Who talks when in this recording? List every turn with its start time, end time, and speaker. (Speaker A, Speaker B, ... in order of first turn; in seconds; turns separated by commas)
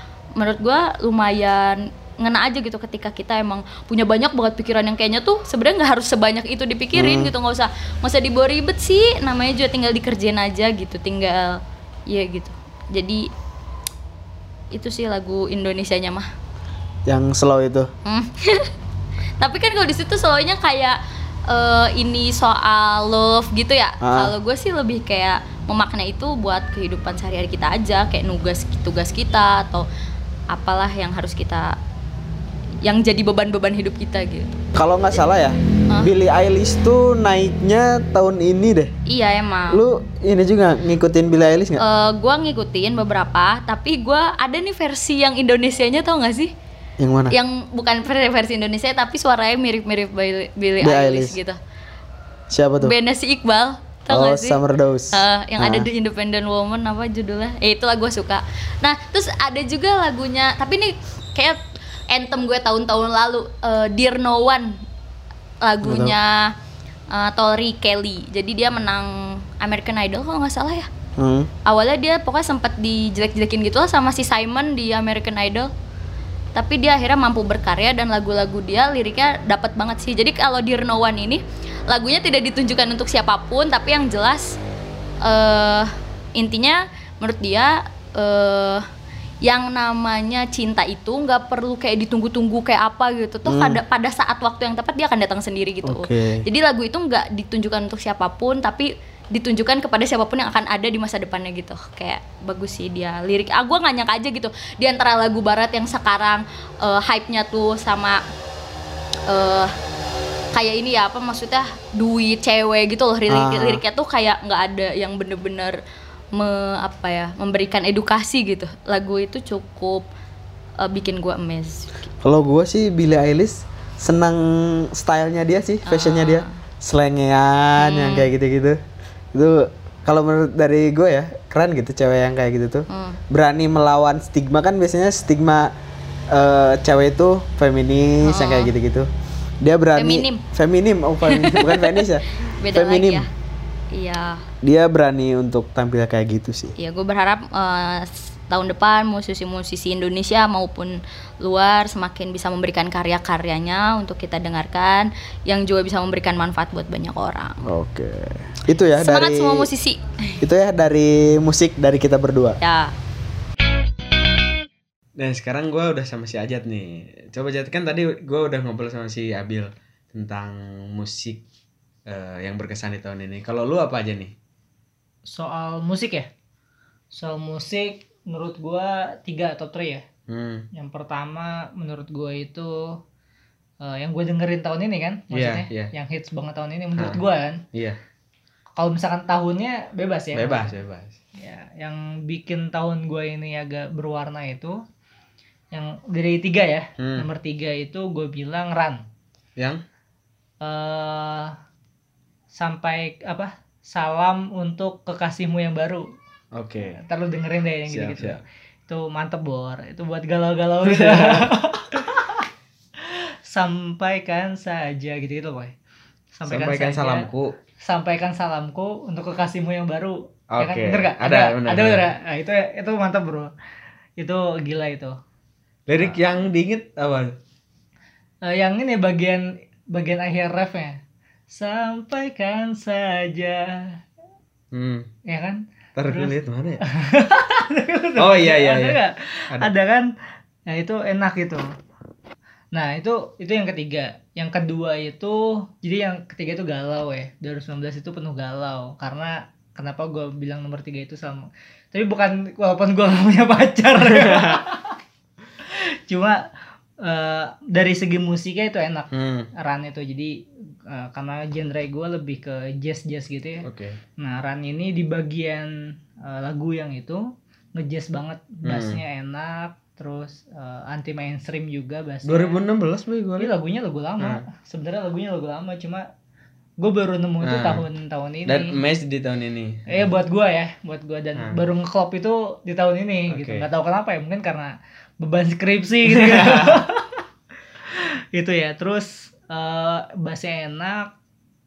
Speaker A: 0.4-13.2, Speaker B: 6.9-7.3, Speaker A: 14.7-16.3, Speaker B: 17.1-17.9, Speaker A: 18.1-18.7, Speaker A: 19.4-29.8, Speaker B: 24.0-24.3, Speaker A: 30.5-31.8, Speaker A: 32.8-34.6, Speaker B: 34.7-38.9, Speaker A: 39.1-39.8, Speaker B: 39.7-41.8, Speaker A: 41.8-46.5, Speaker B: 47.0-47.3, Speaker A: 47.3-51.6, Speaker B: 50.8-51.4, Speaker B: 52.5-53.0, Speaker A: 52.8-54.6, Speaker B: 54.1-55.9, Speaker A: 55.1-61.6, Speaker A: 62.1-64.7, Speaker A: 65.6-66.5, Speaker B: 65.8-66.1, Speaker A: 67.1-70.9, Speaker B: 71.2-71.5, Speaker A: 71.7-75.7, Speaker A: 76.5-84.6, Speaker A: 85.2-88.8, Speaker A: 89.4-108.2, Speaker B: 93.4-93.8, Speaker B: 95.8-96.4, Speaker A: 109.3-109.7, Speaker A: 110.5-115.8, Speaker B: 113.3-113.8, Speaker A: 116.3-120.0, Speaker A: 120.8-121.9, Speaker B: 122.2-128.8, Speaker A: 125.8-126.6, Speaker A: 127.8-128.3, Speaker B: 129.3-135.7, Speaker A: 132.9-133.2, Speaker B: 136.3-139.1, Speaker A: 138.2-138.7, Speaker B: 139.6-143.2, Speaker A: 139.9-140.4, Speaker A: 141.2-142.0, Speaker A: 142.6-143.3, Speaker A: 143.9-144.4, Speaker B: 144.6-146.7, Speaker A: 146.8-157.6, Speaker B: 157.6-159.7, Speaker A: 158.9-160.4, Speaker B: 160.4-162.6, Speaker A: 162.6-162.9, Speaker C: 165.2-171.4, Speaker C: 172.1-174.3, Speaker D: 175.3-176.3, Speaker D: 177.1-180.0, Speaker C: 180.3-180.7, Speaker D: 180.7-183.0, Speaker D: 183.8-187.6, Speaker C: 185.3-185.9, Speaker C: 186.9-187.2, Speaker C: 187.7-188.0, Speaker D: 188.8-190.7, Speaker C: 190.3-191.2, Speaker D: 191.4-194.8, Speaker D: 195.7-199.0, Speaker C: 197.0-197.3, Speaker D: 200.6-201.5, Speaker D: 202.5-206.1, Speaker C: 206.5-207.0, Speaker D: 206.9-212.4, Speaker C: 207.9-208.4, Speaker C: 210.8-211.5, Speaker D: 213.0-215.7, Speaker D: 216.3-217.3, Speaker C: 216.4-217.5, Speaker D: 217.8-223.5, Speaker C: 220.5-222.1, Speaker D: 224.2-225.1, Speaker C: 225.9-227.3, Speaker D: 228.4-231.0, Speaker D: 231.5-234.0, Speaker C: 234.7-235.1, Speaker D: 235.3-236.3, Speaker C: 235.9-236.8, Speaker D: 236.9-240.1, Speaker C: 238.2-239.0, Speaker D: 240.7-241.6, Speaker D: 242.7-254.9, Speaker C: 254.0-254.6, Speaker D: 255.6-256.4, Speaker D: 257.0-263.6, Speaker C: 259.1-259.5, Speaker C: 263.6-264.0, Speaker D: 264.2-272.6, Speaker C: 268.6-269.0, Speaker C: 272.2-273.5, Speaker D: 273.4-276.1, Speaker D: 276.8-278.7, Speaker C: 277.4-277.8, Speaker C: 278.5-280.1, Speaker D: 279.9-287.2, Speaker C: 283.3-283.6, Speaker C: 286.1-286.8, Speaker D: 287.8-291.1